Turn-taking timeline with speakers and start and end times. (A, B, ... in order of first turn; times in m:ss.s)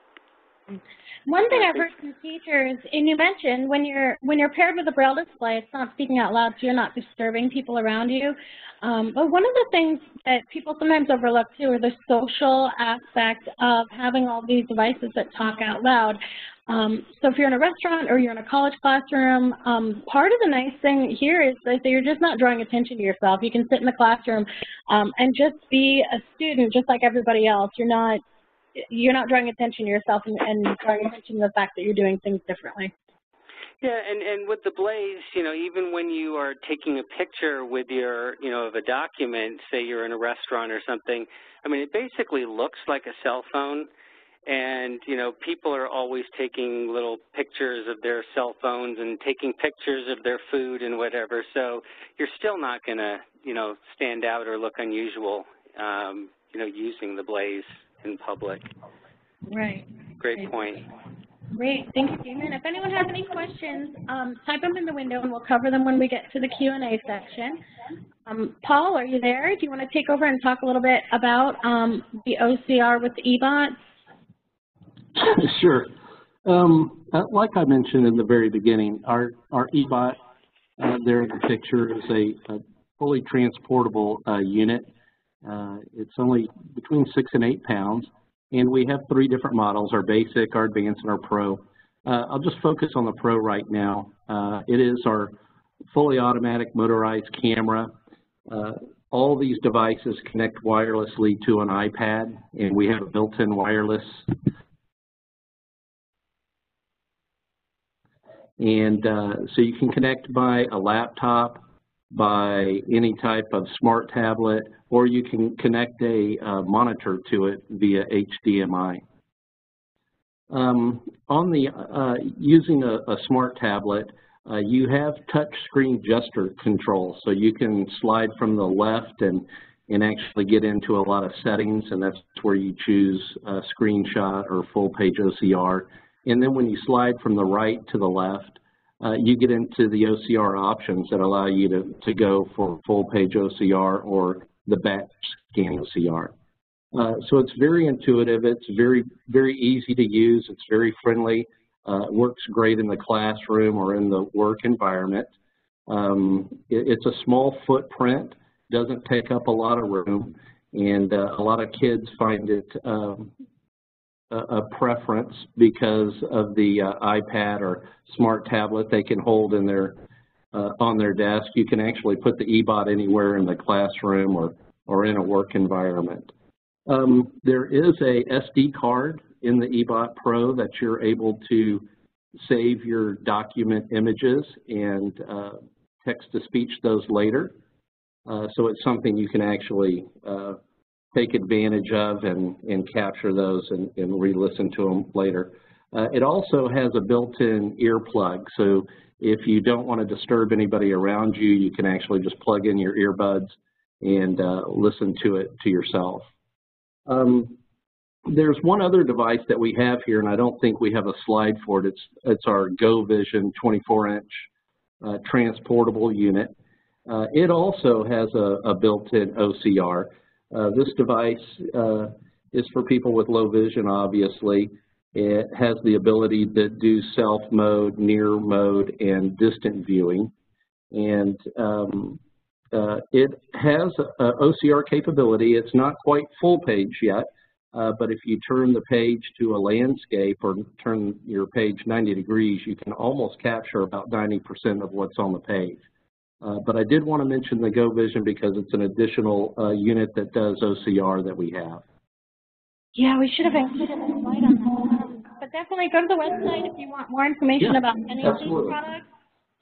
0:00.7-0:28.2 A
0:01.6-0:01.8 B
0:28.8-0:32.9 A
0:33.8-0:43.9 B
0:44.5-0:58.7 B
0:59.5-1:00.5 A
1:00.2-1:00.9 B
1:01.5-1:07.6 A
1:08.3-1:13.8 A
1:15.2-1:15.9 C
1:16.4-1:20.2 C
1:20.8-1:24.9 C
1:25.4-1:35.3 C
1:35.9-1:37.9 C
1:38.5-1:44.4 C
1:48.6-1:59.0 C
2:00.5-2:26.3 C
2:26.9-2:35.3 C
2:35.9-2:43.3 C
2:44.3-2:50.0 C
2:50.5-2:56.3 C
2:56.9-3:01.9 C
3:02.4-3:07.6 C
3:08.3-3:10.6 C
3:11.1-3:26.3 C
3:27.1-3:27.6 C
3:28.3-3:34.5 C
3:35.0-3:36.5 C
3:37.1-3:50.3 C
3:50.9-3:52.2 C
3:52.7-4:05.8 C
4:06.4-4:11.8 C
4:13.0-4:19.1 A
4:17.6-4:18.8 C